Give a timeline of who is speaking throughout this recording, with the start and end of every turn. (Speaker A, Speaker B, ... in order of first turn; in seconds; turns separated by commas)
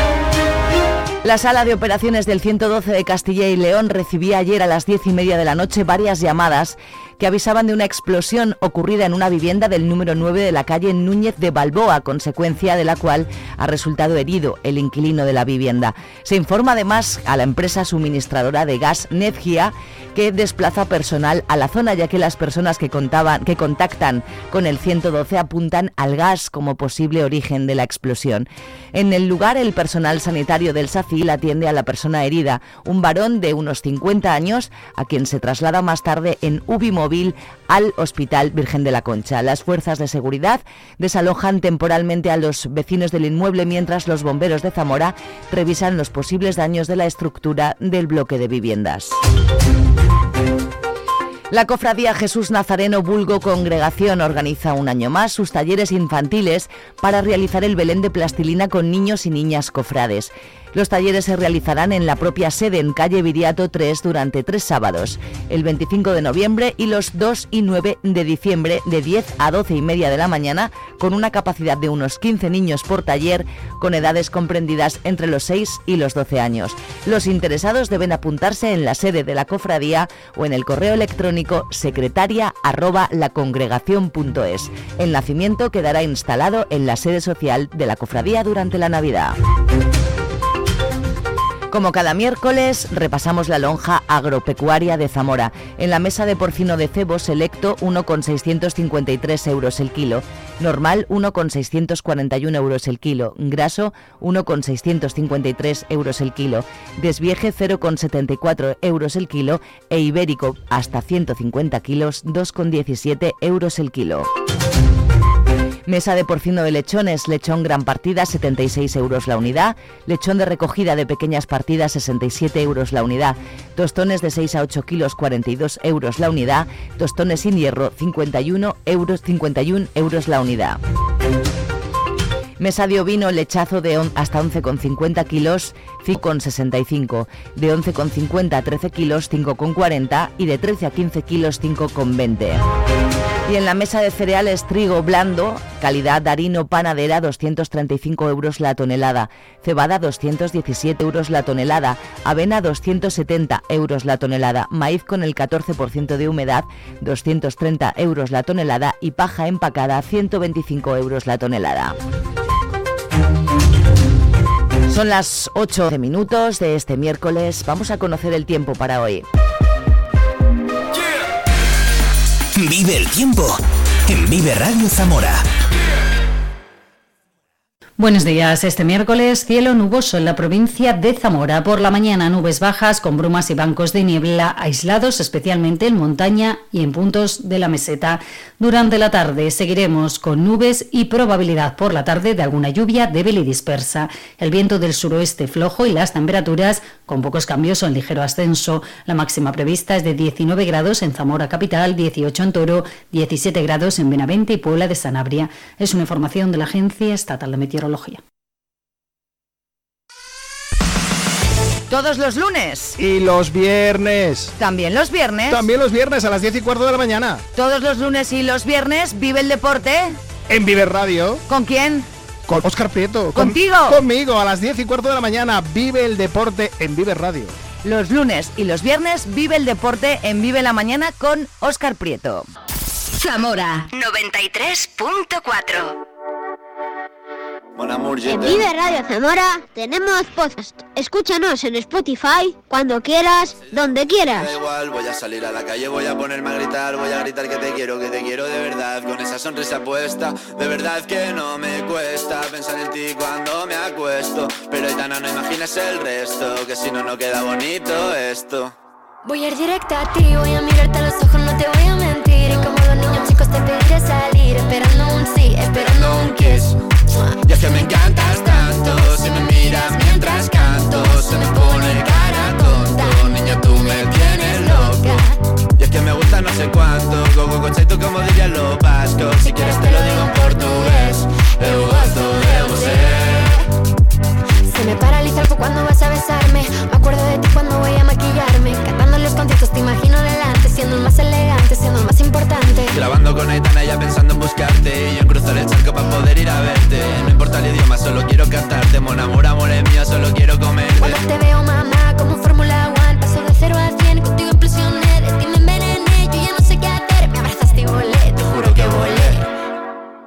Speaker A: 1.2-49.2, Speaker A: 51.5-89.4, Speaker A: 91.7-114.3, Speaker A: 115.9-130.8, Speaker A: 132.6-142.6, Speaker A: 143.5-162.0, Speaker A: 164.9-169.3, Speaker B: 172.6-175.4, Speaker C: 178.0-208.2, Speaker A: 211.9-213.0, Speaker D: 213.0-214.5, Speaker A: 214.6-215.7, Speaker D: 215.5-217.4, Speaker A: 217.6-220.2, Speaker D: 220.5-221.4, Speaker A: 221.5-222.1, Speaker D: 222.5-227.5, Speaker A: 223.3-224.0, Speaker A: 227.8-232.5, Speaker E: 233.2-236.0, Speaker F: 237.8-238.7, Speaker G: 238.3-244.5, Speaker F: 243.6-243.8, Speaker F: 244.3-258.7, Speaker H: 259.2-266.6, Speaker G: 265.7-266.3, Speaker F: 265.7-266.8, Speaker F: 267.4-275.2, Speaker G: 271.9-273.1, Speaker G: 274.3-275.1, Speaker F: 275.8-283.6, Speaker G: 279.6-281.0, Speaker G: 281.7-282.6, Speaker H: 284.7-292.9, Speaker F: 292.9-301.2, Speaker H: 301.2-308.2, Speaker G: 304.6-307.5, Speaker G: 308.0-309.2, Speaker F: 308.4-309.4